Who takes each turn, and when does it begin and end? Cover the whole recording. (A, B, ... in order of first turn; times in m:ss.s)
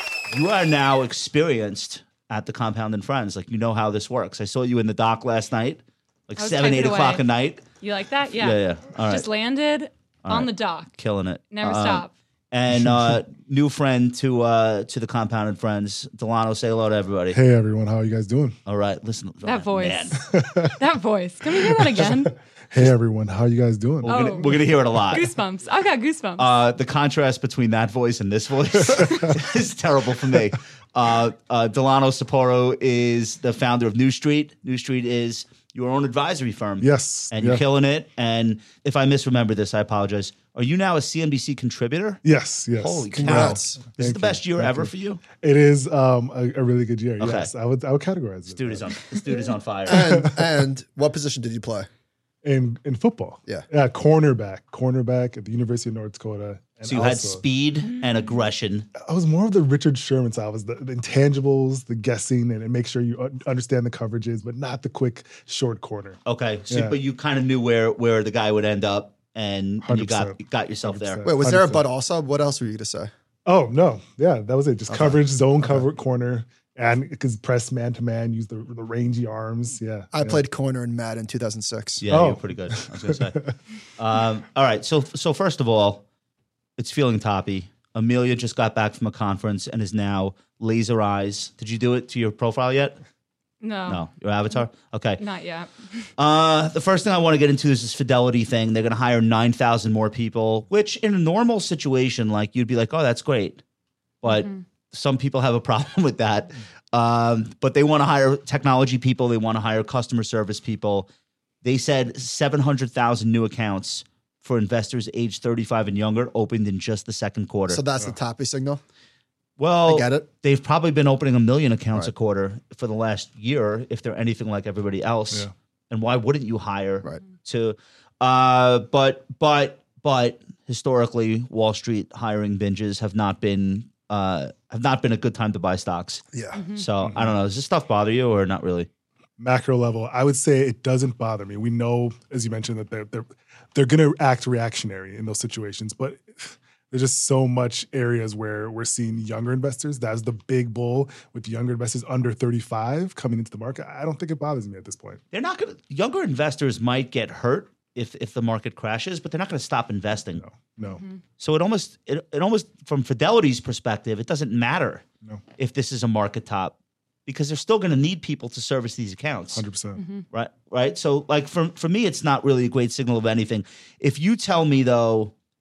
0:00.3-0:07.6 A
0:06.4-0:07.2 B
0:07.8-0:11.0 B
0:08.4-0:09.3 A
0:10.2-0:17.4 A
0:11.5-0:12.1 B
0:17.3-0:18.6 C
0:18.7-0:20.2 A
0:19.4-0:22.4 B
0:20.2-0:20.7 C
0:21.6-0:24.2 C
0:24.0-0:25.3 A
0:24.1-0:26.5 B
0:26.4-0:42.2 A
0:36.8-0:37.6 C
0:42.2-0:49.0 C
0:42.8-0:45.2 A
0:43.1-0:43.8 D
0:47.2-0:47.5 A
0:48.5-0:50.2 A
0:49.9-0:51.9 D
0:49.9-0:50.4 C
0:52.4-0:57.4 C
0:56.8-0:58.9 A
0:59.0-1:06.2 C
1:06.3-1:11.2 A
1:06.7-1:07.0 C
1:09.8-1:11.8 C
1:11.2-1:13.1 D
1:13.5-1:20.4 C
1:14.9-1:15.8 D
1:20.1-1:22.0 D
1:22.0-1:23.5 A
1:22.1-1:23.5 C
1:24.0-1:26.0 A
1:26.8-1:33.0 A
1:33.6-1:34.1 B
1:33.9-1:35.2 A
1:35.2-1:36.1 B
1:36.2-1:43.6 A
1:44.2-1:51.1 A
1:44.2-1:44.6 B
1:51.6-1:57.8 A
1:57.7-1:58.8 D
1:59.6-2:16.2 A
1:59.9-2:00.3 D
2:16.3-2:16.6 D
2:16.5-2:16.9 B
2:16.8-2:18.9 A
2:17.0-2:17.3 C
2:19.4-2:35.2 C
2:35.3-2:40.4 A
2:40.4-2:41.0 C
2:40.9-2:41.2 B
2:41.4-2:45.0 A
2:45.6-2:49.6 A
2:49.5-2:50.0 C
2:50.0-2:50.2 B
2:50.3-2:55.3 A